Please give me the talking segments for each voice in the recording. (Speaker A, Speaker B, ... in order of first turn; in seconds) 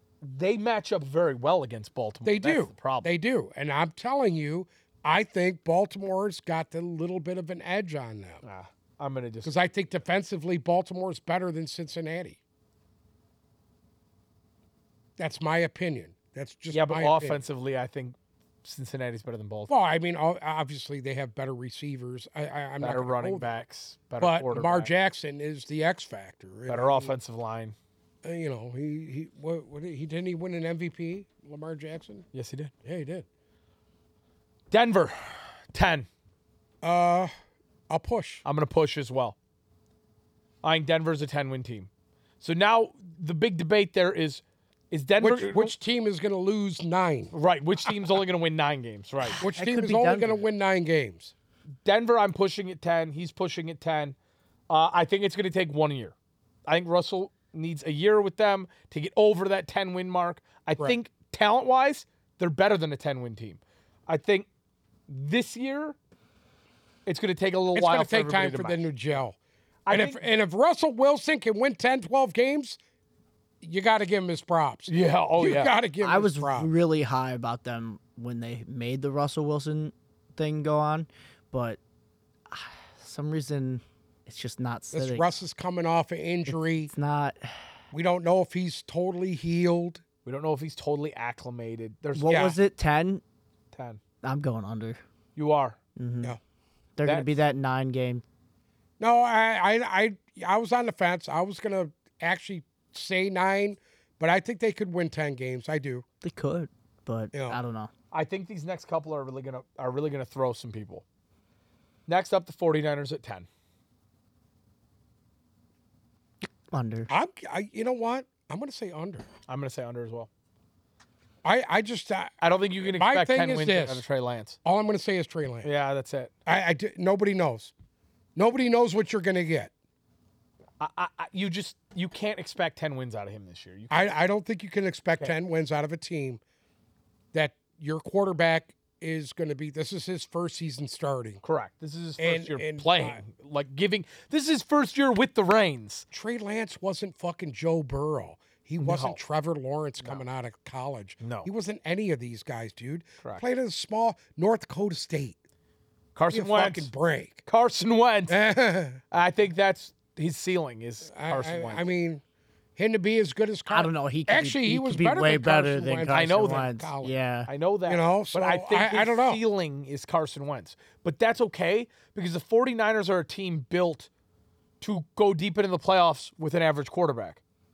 Speaker A: 0.2-3.1, 8.4-9.5, 16.7-19.7, 22.8-24.9, 26.7-27.7, 32.3-32.7, 34.7-36.1, 38.4-39.4, 40.6-41.9, 42.4-45.7, 47.3-49.4, 51.8-54.1, 54.7-56.1, 56.7-64.5, 65.1-66.0, 67.0-68.8, 69.8-70.2, 74.9-75.7, 90.2-92.5, 93.7-94.0, 95.3-95.8, 108.1-111.0, 112.1-113.5, 119.5-120.3, 122.4-124.6, 125.6-126.3, 130.8-133.9, 141.4-146.1, 148.8-149.2, 151.2-151.5, 156.1-156.9, 157.4-158.4, 159.1-161.8, 166.1-166.7, 167.5-174.1, 174.8-177.4
Speaker B: 2.2-8.4, 9.4-12.4, 15.2-17.4, 19.7-23.5, 24.2-27.1, 28.2-32.2, 32.8-33.2, 36.8-37.3, 37.9-38.4, 45.2-47.3, 49.4-51.3, 67.7-69.4, 69.9-72.8, 73.6-76.7, 84.9-86.9, 87.9-90.0, 92.3-92.6, 99.0-106.0, 107.3-107.6, 117.1-119.3, 121.4-122.3, 122.8-124.0, 124.6-125.7, 126.5-127.7, 128.3-129.7, 133.9-136.4, 137.3-141.4, 142.2-143.2, 146.1-155.4, 156.3-157.4, 158.3-159.0, 161.1-162.2, 162.8-167.1, 167.9-169.4
Speaker C: 49.4-50.4, 76.0-81.8, 82.5-85.3, 86.5-87.6, 92.1-93.2, 94.2-95.0, 96.0-96.3, 97.0-98.2, 106.2-107.9, 116.7-117.1, 163.7-167.5